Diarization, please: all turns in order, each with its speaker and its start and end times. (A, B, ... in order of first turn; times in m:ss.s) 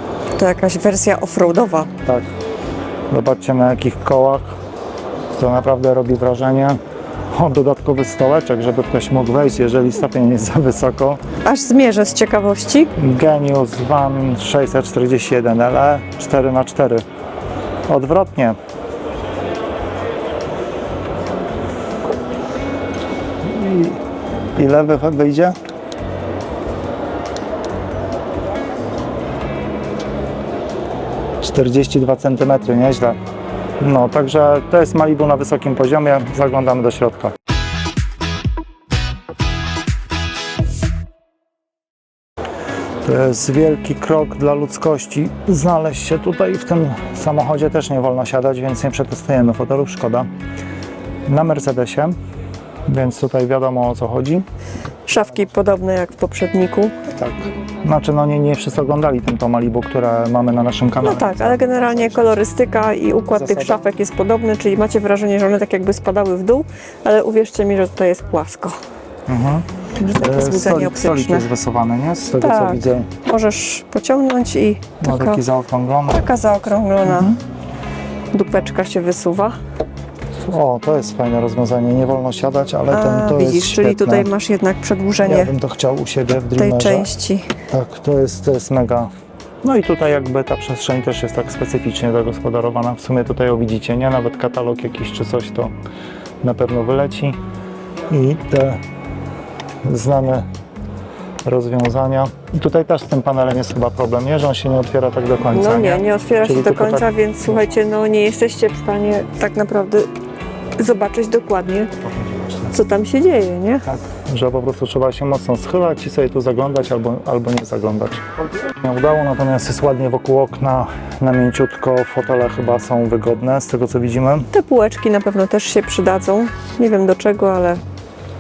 0:00.4-0:01.9 A
0:03.1-0:04.5 B
0:05.4-0:06.8 B
0:07.3-0:11.2 B
0:11.4-0:12.9 A
0:13.0-0:17.0 B
0:17.9-0:18.6 B
0:23.4-0:24.0 B
0:24.6-0:25.6 B
0:31.4-0:33.2 B
0:33.8-0:37.3 B
0:43.0-0:50.3 B
0:51.3-0:52.1 B
0:52.9-0:54.4 B
0:55.1-0:57.0 A
0:57.1-1:02.3 B
1:01.0-1:08.8 A
1:03.4-1:03.8 B
1:09.3-1:13.1 B
1:10.0-1:11.5 A
1:12.4-1:15.4 A
1:15.0-1:16.2 B
1:16.1-1:17.4 A
1:17.0-1:17.4 B
1:18.3-1:19.6 A
1:20.5-1:24.3 B
1:22.9-1:25.5 A
1:25.2-1:27.1 B
1:26.6-1:27.5 A
1:27.7-1:29.1 B
1:29.6-1:35.7 B
1:36.4-1:37.4 B
1:38.1-1:38.8 B
1:39.8-1:40.5 B
1:41.4-1:47.6 B
1:45.5-1:50.1 A
1:50.8-1:51.9 A
1:52.2-1:52.6 B
1:52.7-1:53.8 A
1:53.9-2:04.5 B
2:04.5-2:07.8 A